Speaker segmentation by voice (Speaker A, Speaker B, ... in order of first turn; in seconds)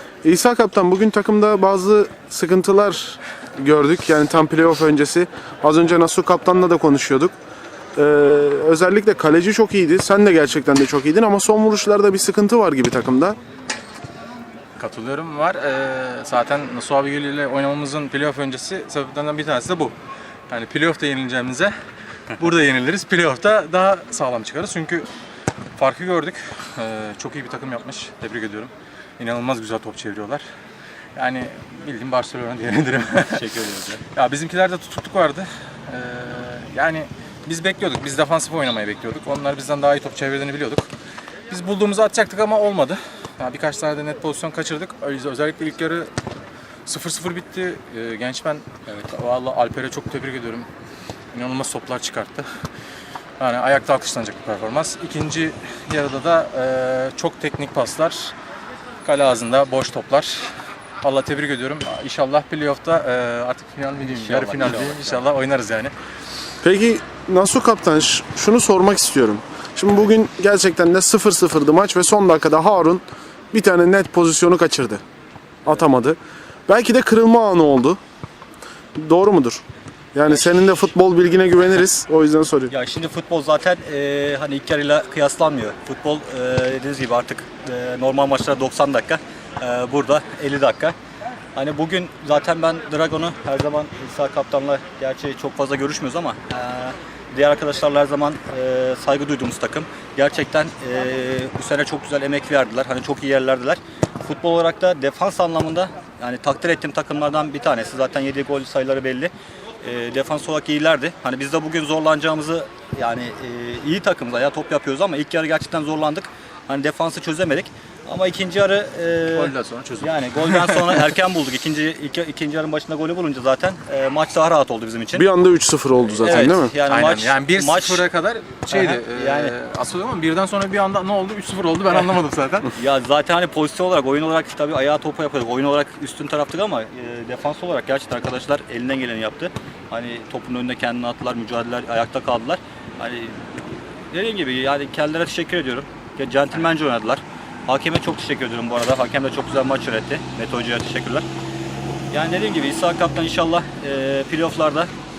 Speaker A: 0.2-7.3, 8.0-13.4, 66.6-75.0, 75.6-78.0, 79.0-79.6, 80.1-82.7, 125.1-126.7
Speaker B: 14.8-19.9, 20.5-21.7, 22.3-25.1, 25.8-30.4, 31.1-33.4, 34.1-40.9, 41.5-46.1, 46.9-50.7, 51.3-52.5, 53.4-58.3, 59.0-65.9, 119.3-121.1, 126.3-132.7
Speaker C: 33.2-34.0, 64.0-65.2, 80.3-80.9, 82.7-90.9, 91.5-125.3, 126.2-128.0, 128.7-129.6, 132.7-151.2, 152.1-154.9